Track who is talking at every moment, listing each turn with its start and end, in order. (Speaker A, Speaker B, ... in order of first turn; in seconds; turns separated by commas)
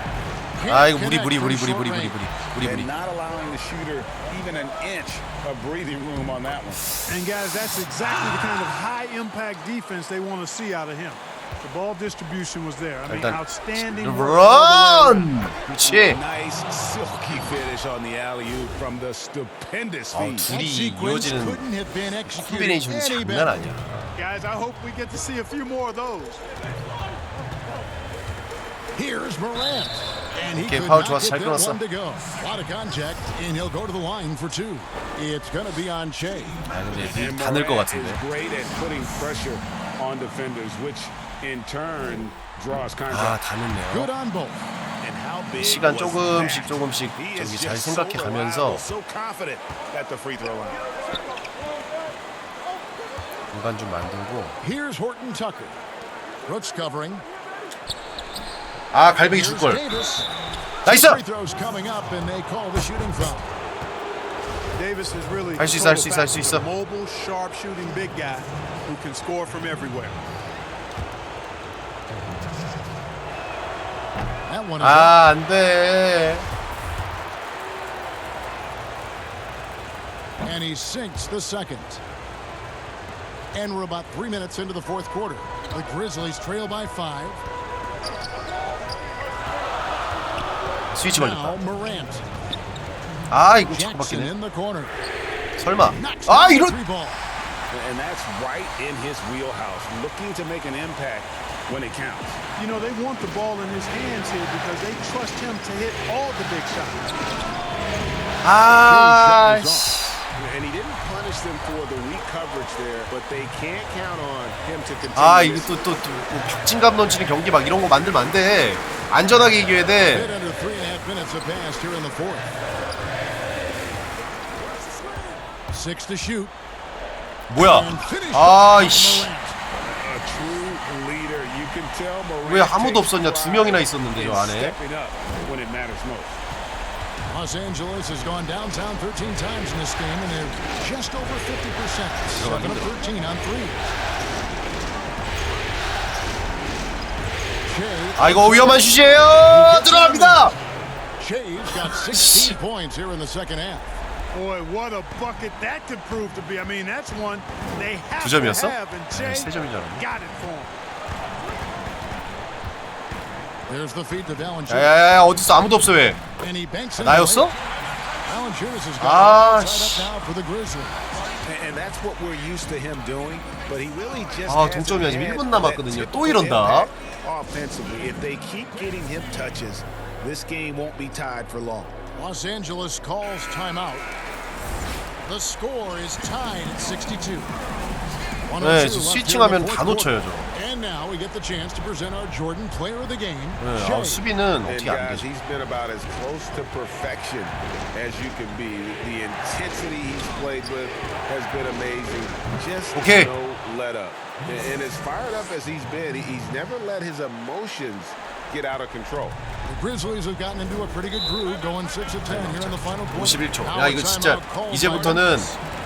Speaker A: 0.6-2.2, Speaker B: 0.7-2.9, Speaker C: 2.6-7.0, Speaker D: 7.1-15.5, Speaker B: 13.1-16.2, Speaker C: 15.8-20.6, Speaker B: 20.1-21.6, Speaker A: 20.5-23.7, Speaker B: 22.3-24.2, Speaker D: 24.1-26.4, Speaker A: 28.9-36.6, Speaker B: 30.6-31.8, Speaker B: 36.7-38.2, Speaker C: 37.0-43.4, Speaker B: 43.1-44.1, Speaker A: 43.9-44.6, Speaker C: 45.0-50.8, Speaker B: 45.6-48.8, Speaker B: 53.5-54.6, Speaker A: 54.6-55.8, Speaker A: 56.5-57.2, Speaker B: 58.9-59.9, Speaker A: 59.3-60.3, Speaker A: 60.9-63.5, Speaker B: 60.9-61.2, Speaker D: 64.8-70.2, Speaker B: 65.6-66.7, Speaker A: 74.5-75.2, Speaker B: 74.8-76.5, Speaker A: 80.4-82.0, Speaker A: 83.5-87.4, Speaker B: 90.9-91.6, Speaker A: 91.1-92.2, Speaker B: 93.3-94.3, Speaker A: 93.6-95.0, Speaker B: 95.6-96.7, Speaker A: 95.9-97.2, Speaker C: 97.7-102.4, Speaker D: 102.6-107.1, Speaker B: 108.4-110.3, Speaker A: 108.8-110.0, Speaker C: 110.4-115.9, Speaker B: 115.2-120.3, Speaker A: 120.0-122.5, Speaker A: 125.7-126.5, Speaker B: 127.5-129.3, Speaker A: 127.6-129.6, Speaker C: 129.8-136.4, Speaker B: 132.4-134.8, Speaker A: 137.3-144.0, Speaker B: 142.3-143.0, Speaker A: 147.6-150.6, Speaker B: 148.2-150.6, Speaker A: 151.2-154.0, Speaker B: 151.8-152.6, Speaker D: 154.3-160.8, Speaker B: 158.2-160.1, Speaker A: 163.7-164.9, Speaker B: 164.7-166.2, Speaker A: 166.4-167.6, Speaker B: 167.0-167.6, Speaker A: 168.3-171.2, Speaker B: 169.0-170.1, Speaker C: 171.4-182.0, Speaker B: 174.5-176.9, Speaker A: 182.2-184.1, Speaker A: 185.2-187.5, Speaker A: 188.5-194.3, Speaker B: 188.6-190.5, Speaker B: 193.6-195.2, Speaker C: 194.6-209.4, Speaker B: 202.9-203.3, Speaker A: 209.7-215.6, Speaker B: 212.3-215.5